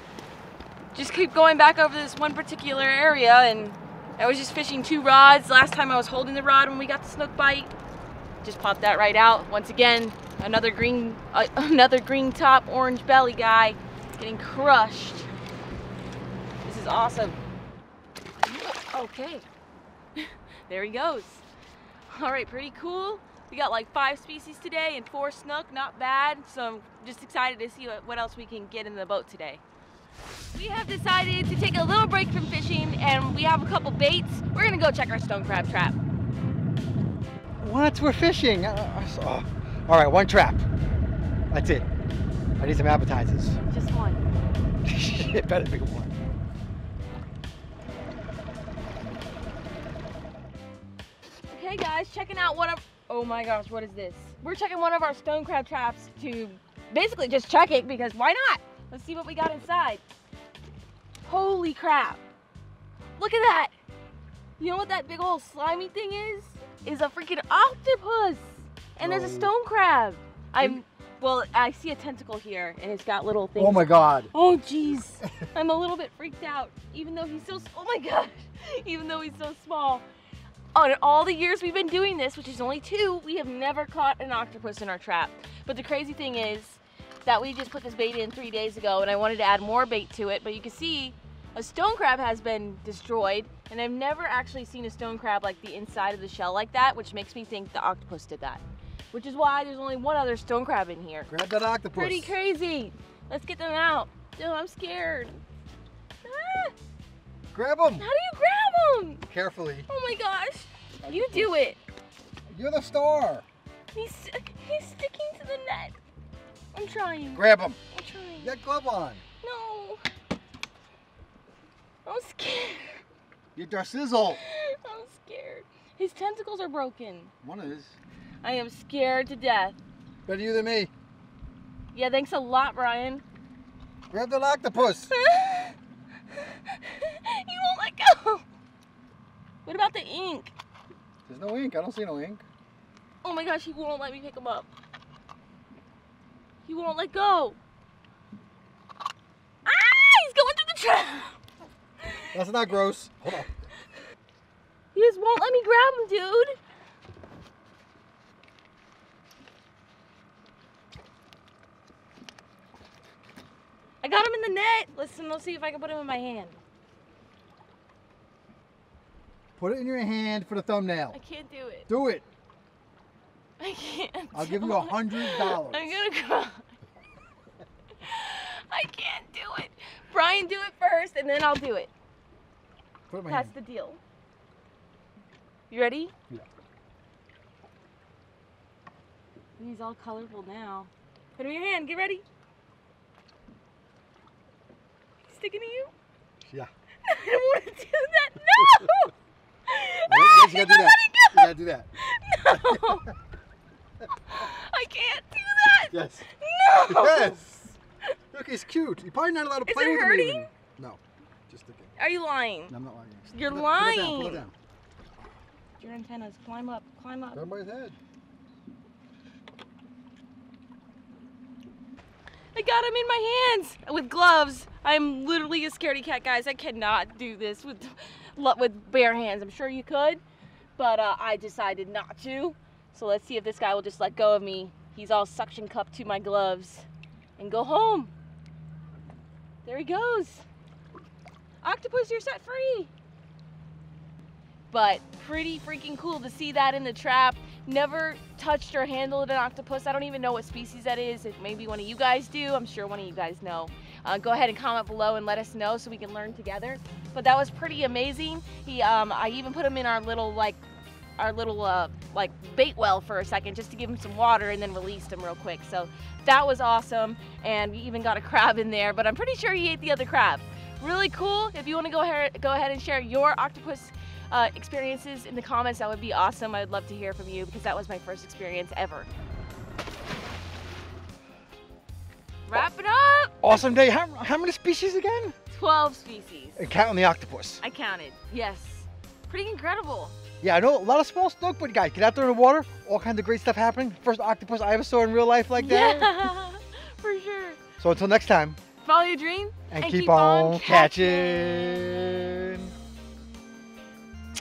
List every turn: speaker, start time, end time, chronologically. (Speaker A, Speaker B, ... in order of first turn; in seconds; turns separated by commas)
Speaker A: 0.9-7.7, Speaker A: 8.4-15.3, Speaker A: 16.6-17.4, Speaker A: 18.4-19.4, Speaker A: 20.2-21.4, Speaker A: 22.1-29.6, Speaker A: 30.5-36.0, Speaker B: 37.6-40.7, Speaker B: 41.5-41.9, Speaker B: 42.6-43.6, Speaker A: 43.7-44.2, Speaker B: 44.9-46.1, Speaker A: 51.5-60.0, Speaker A: 61.2-62.2, Speaker A: 63.2-63.7, Speaker A: 64.6-80.0, Speaker B: 69.0-69.5, Speaker B: 73.6-74.3, Speaker A: 80.7-101.3, Speaker B: 101.3-102.3, Speaker A: 101.9-105.4, Speaker A: 106.2-106.7, Speaker B: 107.5-108.1, Speaker A: 108.0-109.2, Speaker B: 109.3-109.9, Speaker A: 109.9-111.8, Speaker B: 111.0-111.5, Speaker B: 112.5-113.5, Speaker A: 113.9-116.0, Speaker A: 116.7-118.5, Speaker B: 117.3-117.8, Speaker B: 118.4-119.2, Speaker A: 119.4-120.0, Speaker A: 122.0-123.0, Speaker B: 123.5-124.4, Speaker A: 124.3-127.3, Speaker B: 127.4-128.0, Speaker A: 128.4-129.8, Speaker B: 130.3-130.9, Speaker A: 131.9-133.2, Speaker B: 134.1-135.1, Speaker A: 135.1-135.8, Speaker A: 136.3-138.4, Speaker A: 139.7-140.5, Speaker B: 141.3-142.4, Speaker A: 143.2-144.7, Speaker A: 146.7-147.6, Speaker A: 149.7-151.4, Speaker A: 152.0-152.4, Speaker B: 152.3-153.5, Speaker A: 154.9-156.6, Speaker A: 164.0-166.6, Speaker B: 169.6-171.2, Speaker A: 171.1-171.9, Speaker B: 171.9-172.2, Speaker A: 173.6-176.7, Speaker B: 174.3-176.1, Speaker A: 178.0-181.9, Speaker B: 183.1-183.5, Speaker A: 183.3-184.0, Speaker A: 185.7-186.1, Speaker A: 189.6-192.2, Speaker A: 195.3-195.9, Speaker B: 196.5-196.7, Speaker A: 197.0-199.1, Speaker A: 199.7-203.1, Speaker B: 200.1-201.9, Speaker B: 202.5-203.0, Speaker A: 204.2-207.4, Speaker B: 205.9-206.2, Speaker B: 206.8-207.8, Speaker B: 208.3-211.9, Speaker A: 209.7-210.5, Speaker A: 212.0-212.7, Speaker B: 212.7-214.5, Speaker A: 213.3-214.4, Speaker A: 215.8-217.4, Speaker B: 217.3-218.0, Speaker A: 222.6-230.2, Speaker A: 230.8-236.9, Speaker A: 237.4-238.1, Speaker A: 239.7-240.4, Speaker A: 241.6-242.9, Speaker A: 244.7-260.6, Speaker A: 261.2-279.1, Speaker A: 282.5-283.4, Speaker B: 283.4-285.3, Speaker A: 285.5-286.7, Speaker B: 286.6-287.6, Speaker A: 287.6-290.1, Speaker B: 290.4-296.3, Speaker A: 295.6-297.6, Speaker B: 297.8-298.6, Speaker A: 298.8-301.8, Speaker B: 299.7-302.7